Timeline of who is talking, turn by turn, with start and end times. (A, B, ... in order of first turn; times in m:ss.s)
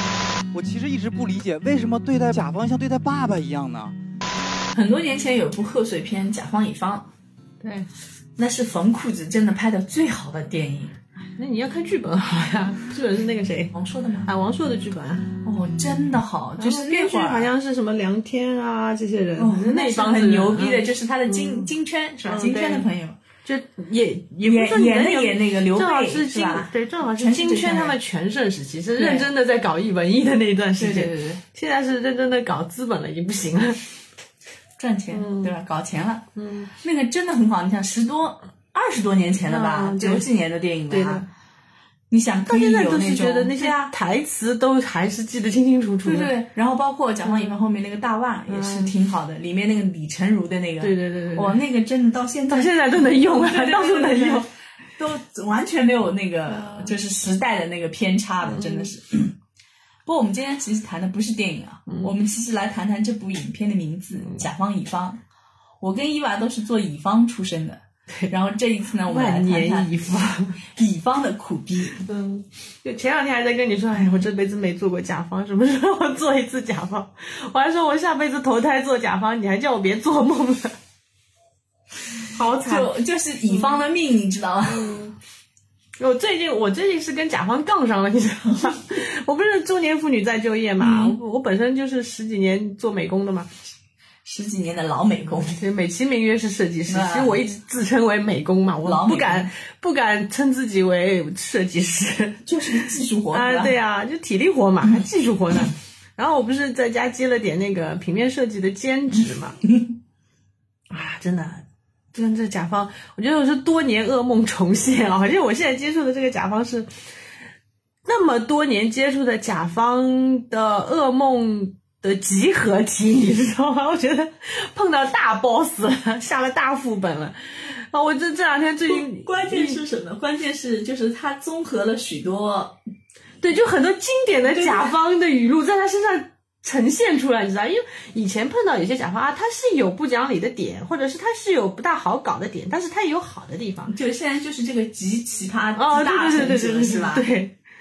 0:00.5-0:03.9 A
0:04.7-0:07.1 B
0:07.6-0:07.9 C
0:08.4-0:10.9 B
0:11.4-0:15.3 C
0:13.7-0:14.3 B
0:15.4-0:17.5 B
0:16.6-0:21.7 C
0:19.4-0:23.2 B
0:22.2-0:22.9 C
0:23.4-0:33.8 C
0:24.4-0:28.0 B
0:29.0-0:29.3 B
0:30.8-0:31.4 B
0:34.8-0:36.3 B
0:35.1-0:35.5 C
0:36.4-0:36.7 C
0:36.8-0:41.2 B
0:39.4-0:40.2 C
0:40.9-0:41.3 C
0:42.1-0:43.9 B
0:42.5-0:46.3 C
0:46.0-0:54.5 B
0:47.2-0:47.6 C
0:48.5-0:48.9 C
0:50.8-0:51.6 C
0:52.5-0:54.5 C
0:55.0-0:59.4 B
0:56.5-0:56.9 C
0:58.4-0:58.9 C
1:00.0-1:05.2 B
1:05.8-1:10.0 B
1:09.1-1:10.6 C
1:10.6-1:12.0 B
1:12.0-1:20.8 C
1:22.3-1:22.9 C
1:22.6-1:24.9 B
1:23.5-1:23.8 C
1:24.6-1:25.1 C
1:26.0-1:33.5 C
1:30.8-1:31.2 B
1:34.2-1:35.6 B
1:35.5-1:49.6 C
1:36.9-1:37.5 B
1:38.8-1:39.5 B
1:42.4-1:43.8 B
1:49.6-1:49.9 B
1:50.9-1:56.9 C
1:58.0-2:09.8 C
2:08.9-2:12.8 B
2:13.4-2:23.9 C
2:14.5-2:14.9 B
2:23.9-2:27.3 B
2:25.8-2:27.6 C